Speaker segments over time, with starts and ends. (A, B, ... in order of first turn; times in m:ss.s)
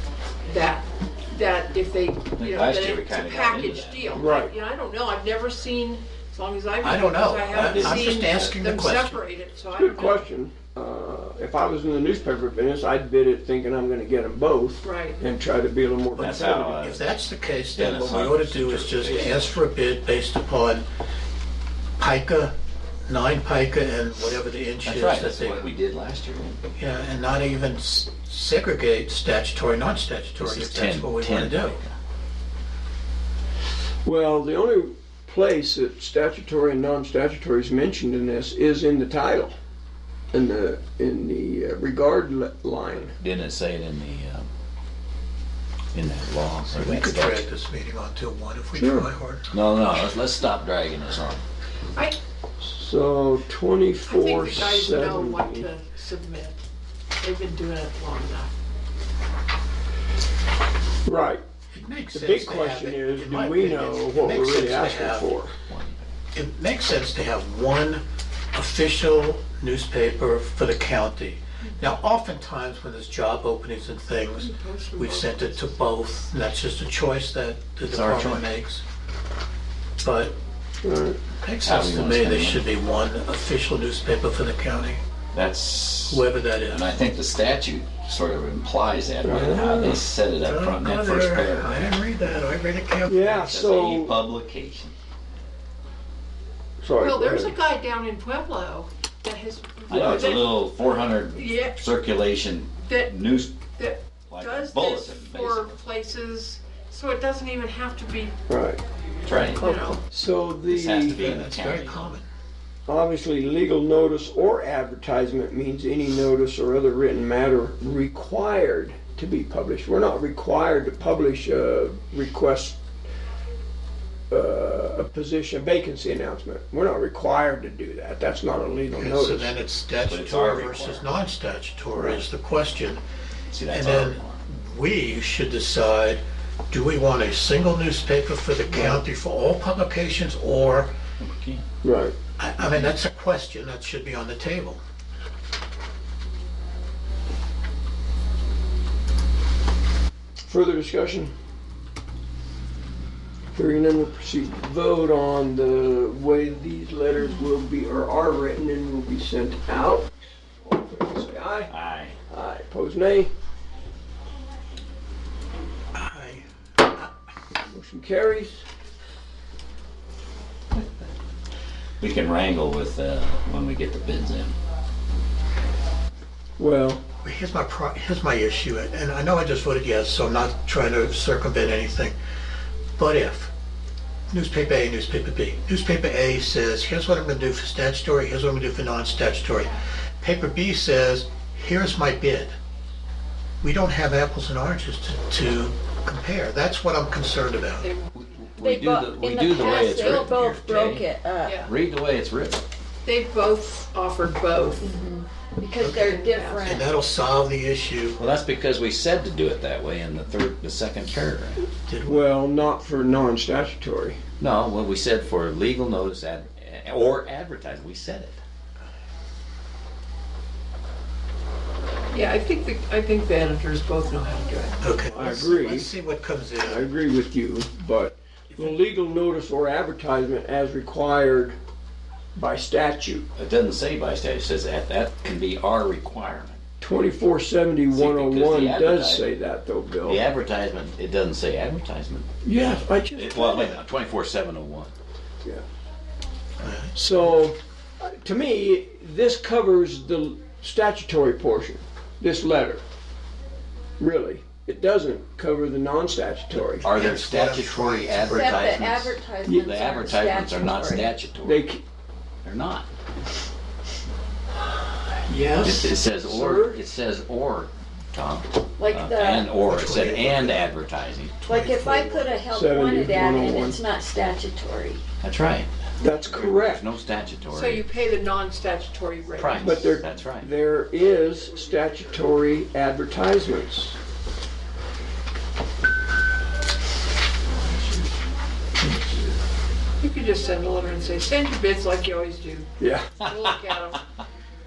0:00.5-0:10.3 A
0:02.4-0:04.3 B
0:04.2-0:04.5 C
0:06.8-0:09.2 D
0:07.5-0:08.5 B
0:09.7-0:16.8 C
0:14.8-0:15.2 A
0:16.2-0:17.1 B
0:16.2-0:20.8 D
0:17.7-0:19.6 B
0:22.0-0:22.5 D
0:23.1-0:25.7 D
0:24.8-0:26.6 B
0:26.8-0:31.8 D
0:30.4-0:31.9 B
0:34.0-0:39.5 C
0:40.3-0:43.1 C
0:43.2-0:44.5 B
0:45.9-0:47.5 B
0:46.7-0:49.5 D
0:48.8-0:49.1 C
0:49.5-0:51.4 B
0:52.6-0:55.7 C
0:54.1-0:56.6 A
0:57.2-0:58.5 A
1:01.0-1:01.4 C
1:01.7-1:05.3 D
1:02.1-1:05.5 C
1:05.7-1:06.1 B
1:06.4-1:08.0 D
1:08.5-1:18.8 D
1:14.4-1:15.8 A
1:17.8-1:18.5 B
1:20.0-1:20.4 D
1:20.8-1:21.3 C
1:21.4-1:25.0 D
1:21.6-1:22.7 B
1:25.3-1:32.0 B
1:26.1-1:26.9 D
1:29.2-1:30.0 C
1:30.4-1:33.3 D
1:33.0-1:34.2 C
1:33.3-1:35.0 B
1:36.8-1:37.6 C
1:37.0-1:40.6 A
1:39.9-1:43.5 B
1:41.3-1:41.8 A
1:42.8-1:43.2 A
1:43.7-1:48.3 A
1:44.3-1:45.7 B
1:48.5-1:48.8 C
1:49.3-1:49.6 B
1:49.5-1:50.0 A
1:49.6-1:51.2 C
1:50.6-1:52.2 B
1:51.2-1:52.3 D
1:52.9-2:02.8 C
2:04.3-2:09.6 C
2:08.9-2:13.0 D
2:10.0-2:11.1 B
2:12.0-2:12.2 C
2:13.5-2:14.4 B
2:13.7-2:21.0 D
2:18.7-2:19.0 C
2:21.2-2:21.6 B
2:21.8-2:22.2 C
2:22.4-2:24.8 D
2:30.4-2:31.3 C
2:33.5-2:40.1 C
2:40.6-2:41.7 C
2:41.7-2:42.2 B
2:42.3-2:43.3 C
2:46.0-2:47.1 D
2:47.7-2:48.6 C
2:52.0-2:54.6 B
2:56.6-2:57.1 C
2:57.2-3:02.2 D
3:03.0-3:03.5 D
3:04.3-3:12.5 D
3:13.6-3:17.9 D
3:17.8-3:18.1 A
3:18.1-3:21.1 B
3:18.6-3:21.6 E
3:19.6-3:20.4 A
3:21.4-3:21.7 A
3:21.6-3:22.7 B
3:23.0-3:24.9 A
3:24.8-3:26.9 E
3:25.8-3:28.2 D
3:26.1-3:26.6 A
3:28.2-3:31.7 B
3:31.9-3:32.3 D
3:32.1-3:34.2 C
3:34.4-3:38.4 B
3:42.1-3:44.9 A
3:44.8-3:46.9 D
3:45.1-3:45.9 C
3:46.6-3:51.6 C
3:52.4-3:53.3 C
3:53.4-3:56.6 B
3:56.8-4:00.2 C
3:57.9-3:59.3 B
4:00.0-4:04.9 B
4:02.4-4:03.8 C
4:06.6-4:07.0 D
4:07.0-4:12.8 C
4:14.0-4:16.9 C
4:16.8-4:21.6 B
4:16.9-4:18.8 D
4:18.2-4:21.1 E
4:21.4-4:21.8 C
4:22.4-4:22.9 B
4:25.3-4:26.8 C
4:25.5-4:25.8 D
4:25.6-4:31.4 B
4:28.8-4:29.6 E
4:29.6-4:30.6 D
4:31.4-4:35.0 E
4:31.5-4:32.5 D
4:32.5-4:33.8 C
4:35.2-4:37.8 B
4:36.0-4:36.8 C
4:37.5-4:39.9 A
4:39.4-4:40.5 B
4:39.6-4:44.0 C
4:50.0-4:54.0 A
4:52.8-4:53.2 C